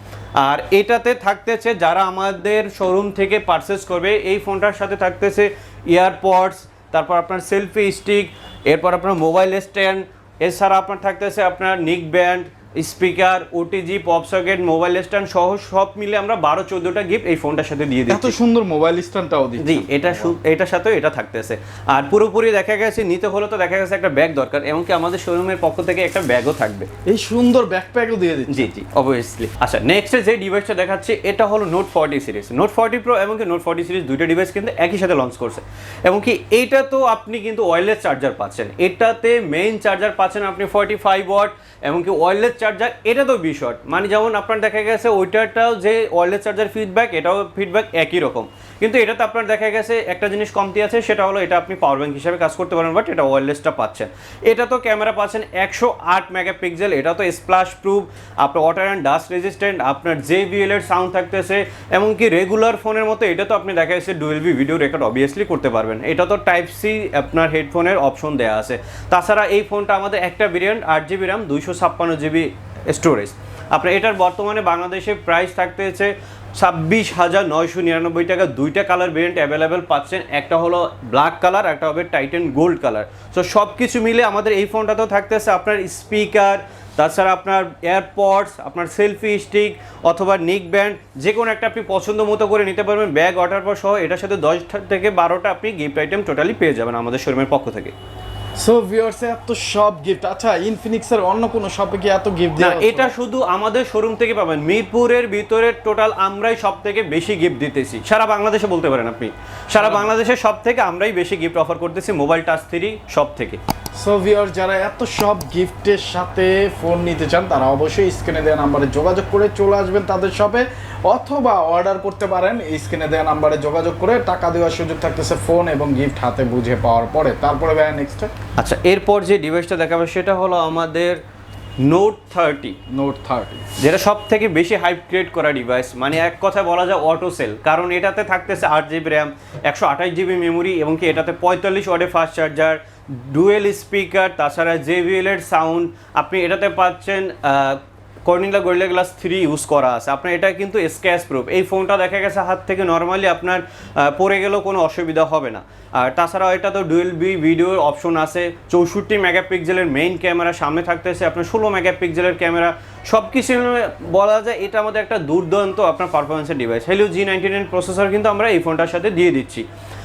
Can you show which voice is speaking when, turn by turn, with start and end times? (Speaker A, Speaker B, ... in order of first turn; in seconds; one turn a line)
Speaker A: 0.4-18.4
Speaker B: 18.1-20.3
Speaker A: 19.6-26.9
Speaker B: 27.1-28.6
Speaker A: 28.5-97.9
Speaker B: 98.6-103.1
Speaker A: 102.6-113.6
Speaker B: 109.8-110.1
Speaker B: 114.0-128.3
Speaker A: 128.6-131.2
Speaker A: 131.8-132.8
Speaker B: 132.9-133.7
Speaker A: 133.8-169.6